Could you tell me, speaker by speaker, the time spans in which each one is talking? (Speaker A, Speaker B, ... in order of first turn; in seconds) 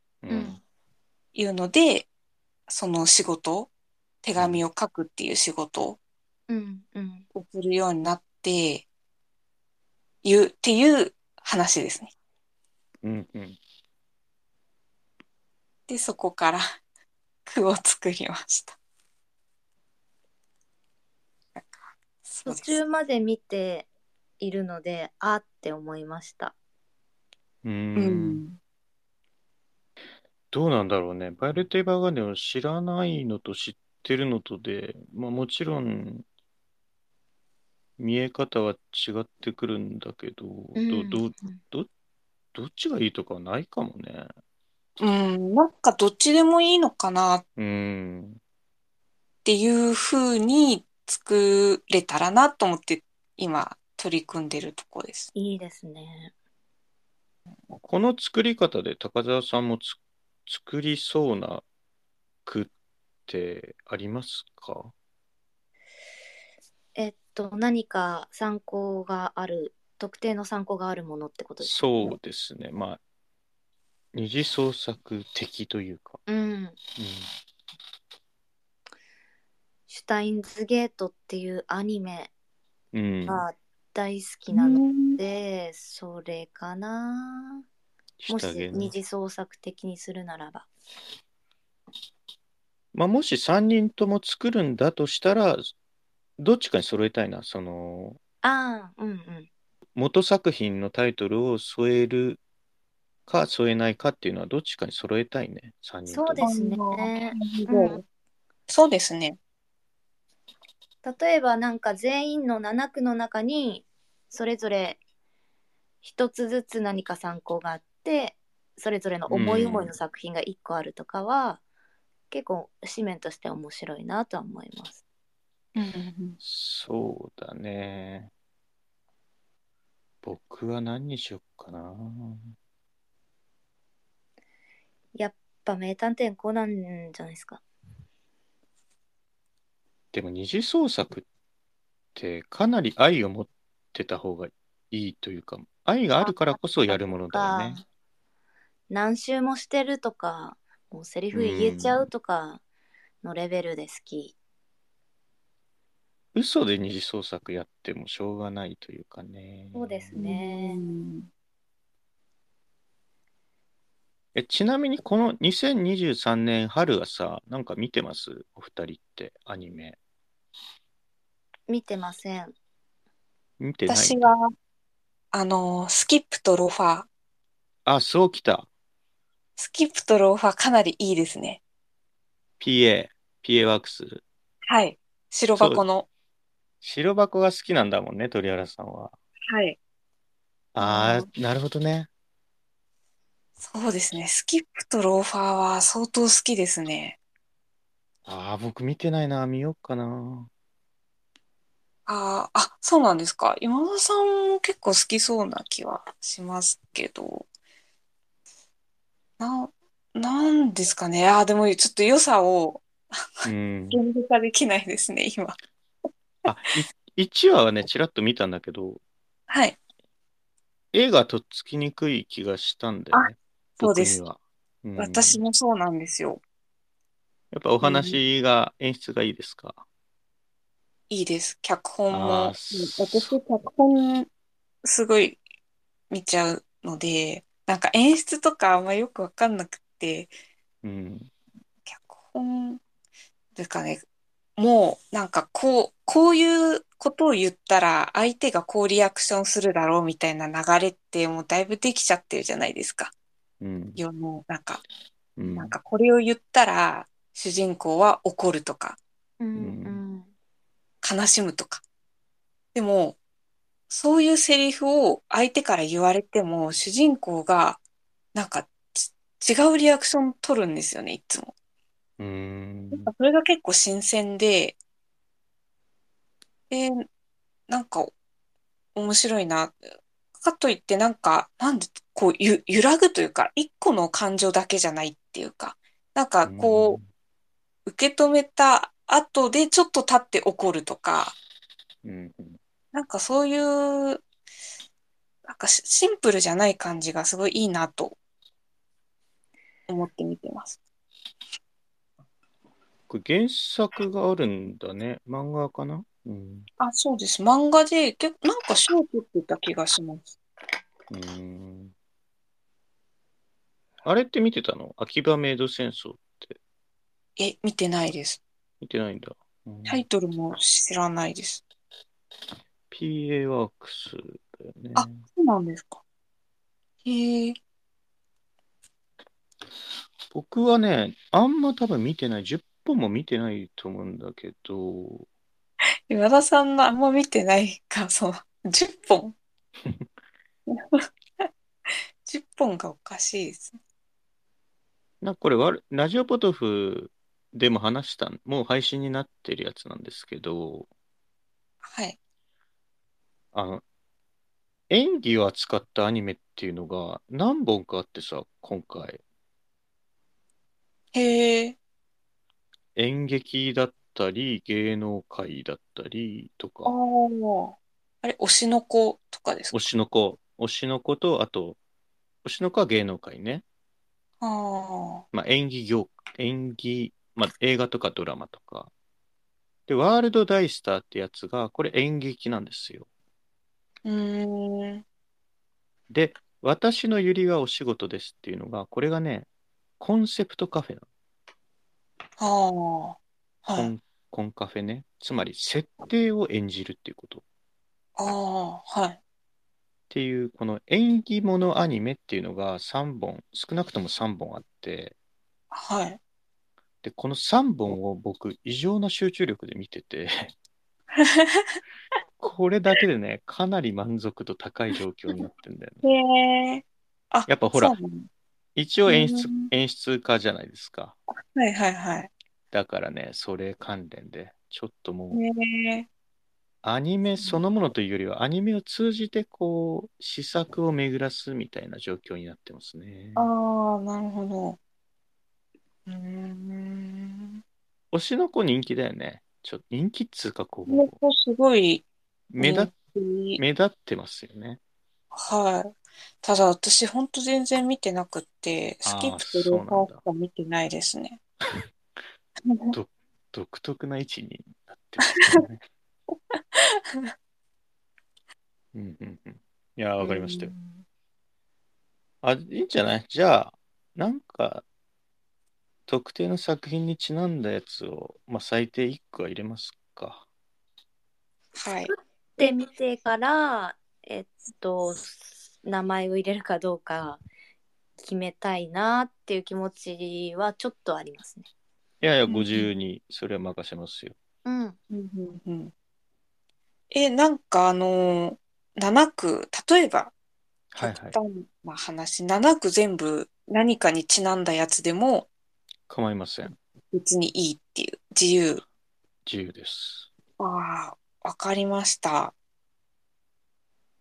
Speaker A: 0.2-0.6, 13.0-13.6, 27.6-28.4, 30.5-36.2, 38.0-41.9, 42.5-44.3, 47.6-48.4, 57.8-61.6, 62.5-62.7, 63.3-64.9, 71.6-73.0, 74.1-76.2, 77.0-77.3, 82.9-83.4, 88.2-88.9, 92.9-95.7, 96.4-98.2, 100.0-102.4, 103.3-106.5, 119.3-119.9, 126.4-128.3, 130.2-132.5, 140.1-141.3, 142.2-147.8, 151.3-152.1, 156.3-160.1, 164.3-170.0, 173.6-174.3, 177.9-178.7, 182.6-184.2, 185.6-185.8, 186.8-189.1, 190.7-192.1, 198.3-200.5, 213.4-214.0, 216.4-219.0, 220.9-225.4, 227.5-229.8, 232.1-233.3, 240.8-241.3, 253.6-254.0, 255.4-255.8, 259.6-260.0, 272.2-273.1, 286.5-287.1, 292.0-292.6, 303.1-306.7, 311.1-311.9, 314.0-316.6, 318.8-320.0, 322.9-325.2, 330.3-335.3, 345.2-350.9, 353.5-353.8, 354.9-359.2, 363.0-366.9, 369.7-371.8, 372.4-373.6, 375.3-378.9, 379.9-383.1, 386.1-389.5, 390.0-391.1, 393.8-397.4, 400.1-405.1, 407.0-410.5, 412.4-416.1, 417.5-418.0, 418.8-421.2, 422.7-425.4, 426.8-433.5, 438.1-441.1, 442.5-442.9, 443.6-444.8, 449.1-450.2, 452.9-455.8, 458.9-460.7, 462.4-464.9, 466.1-470.4, 482.2-484.4, 490.9-491.4, 496.1-496.8, 499.4-500.3
Speaker B: 0.3-0.6, 6.5-7.3, 22.5-23.9, 24.4-26.5, 40.8-41.6, 55.4-56.3, 67.0-72.2, 76.3-76.8, 79.9-82.3, 83.3-87.6, 88.3-90.7, 98.4-99.5, 106.1-108.0, 111.0-115.0, 116.0-121.6, 122.3-125.0, 135.2-137.6, 146.2-147.8, 148.9-152.6, 153.2-154.3, 159.7-160.8, 171.7-172.5, 259.4-260.3, 472.1-477.4, 478.2-481.7, 484.6-485.0
Speaker C: 1.4-2.1, 2.7-3.7, 4.2-6.0, 7.3-8.8, 10.2-12.1, 15.9-16.7, 17.5-18.8, 22.2-22.8, 28.0-28.6, 45.0-47.4, 49.5-55.3, 84.5-85.2, 106.4-108.0, 108.7-109.4, 125.8-126.4, 160.2-161.3, 173.9-174.5, 175.3-177.1, 179.6-181.6, 184.7-186.1, 189.5-189.8, 190.8-191.3, 193.6-197.2, 202.1-207.5, 209.4-215.6, 219.5-219.8, 223.1-224.2, 225.0-226.4, 227.8-228.2, 231.1-234.3, 234.8-235.4, 236.1-240.3, 241.9-242.8, 243.6-244.0, 244.6-253.1, 254.0-254.8, 255.5-259.0, 261.0-261.8, 262.7-263.2, 263.9-267.8, 268.3-271.5, 272.9-274.8, 276.7-277.1, 277.7-278.1, 278.9-279.8, 280.4-287.0, 287.9-291.4, 292.9-294.2, 295.5-298.2, 299.9-300.8, 306.8-310.3, 317.4-318.4, 319.9-321.6, 324.9-326.0, 327.1-327.6, 336.1-339.4, 340.7-341.5, 342.2-343.8, 351.8-352.2, 361.1-361.8, 366.9-369.8, 374.4-375.2, 384.1-385.0, 392.4-393.9, 398.2-399.2, 405.7-406.2, 411.2-411.8, 416.0-418.3, 419.1-419.7, 421.3-422.3, 425.3-426.1, 433.4-434.8, 436.1-437.6, 440.9-442.1, 442.6-443.6, 445.3-451.4, 452.7-453.0, 456.5-457.3, 460.2-461.0, 471.8-472.1, 482.5-482.9, 485.1-485.9, 487.1-490.3, 491.0-495.5, 497.1-498.8, 500.6-502.5